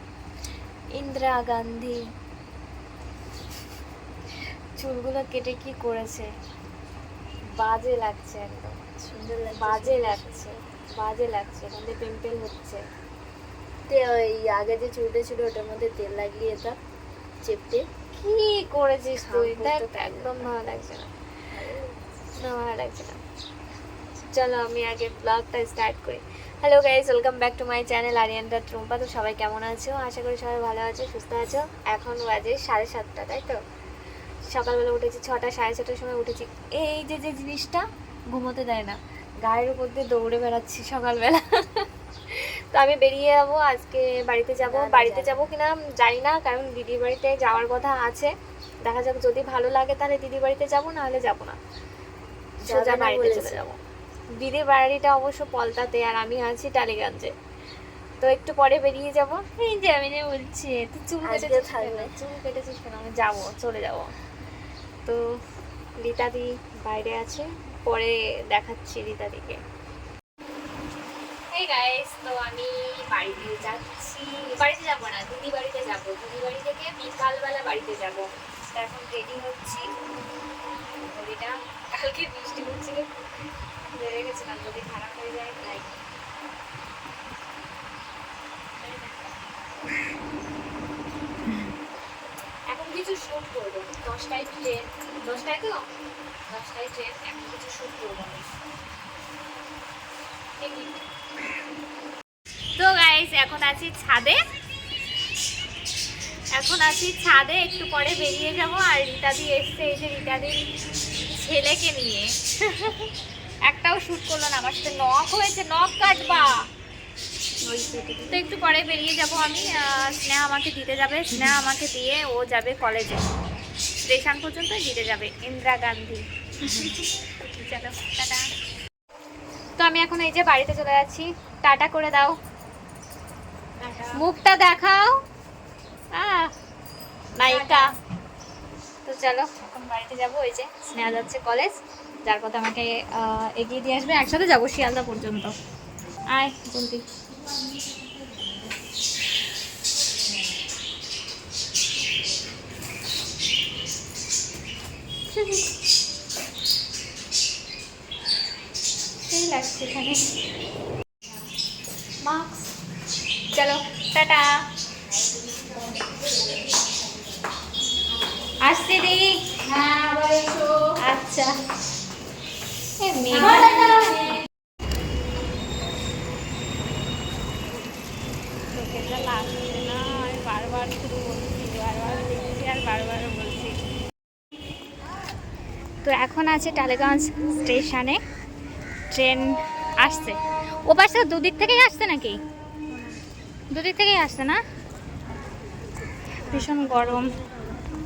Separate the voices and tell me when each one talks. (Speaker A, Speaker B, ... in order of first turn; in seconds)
Speaker A: 0.9-2.0, 4.8-6.3, 7.6-8.8, 9.6-12.8, 18.2-21.1, 22.4-23.2, 24.3-33.6, 34.5-41.8, 42.7-48.3, 48.9-51.6, 52.6-53.8, 54.4-57.3, 58.2-64.1, 66.0-69.6, 71.5-79.9, 81.0-83.1, 84.0-85.9, 88.8-89.3, 92.7-95.8, 96.5-98.5, 100.6-101.0, 102.8-104.4, 106.6-110.7, 111.4-113.0, 113.7-116.5, 117.7-123.2, 124.1-128.4, 129.8-132.3, 133.8-135.1, 136.1-136.5, 137.4-137.9, 139.1-145.6, 146.3-147.0, 159.3-160.2, 162.2-162.7, 163.5-164.6, 168.6-169.6, 171.0-171.5, 173.0-174.4, 178.7-183.7, 186.1-188.2, 189.1-190.4, 190.9-192.4, 193.7-194.6, 196.5-197.3
Speaker B: 9.0-10.6, 13.9-16.8, 17.4-17.9, 19.2-20.5, 21.5-22.0, 44.6-45.5, 52.7-53.7, 61.2-62.1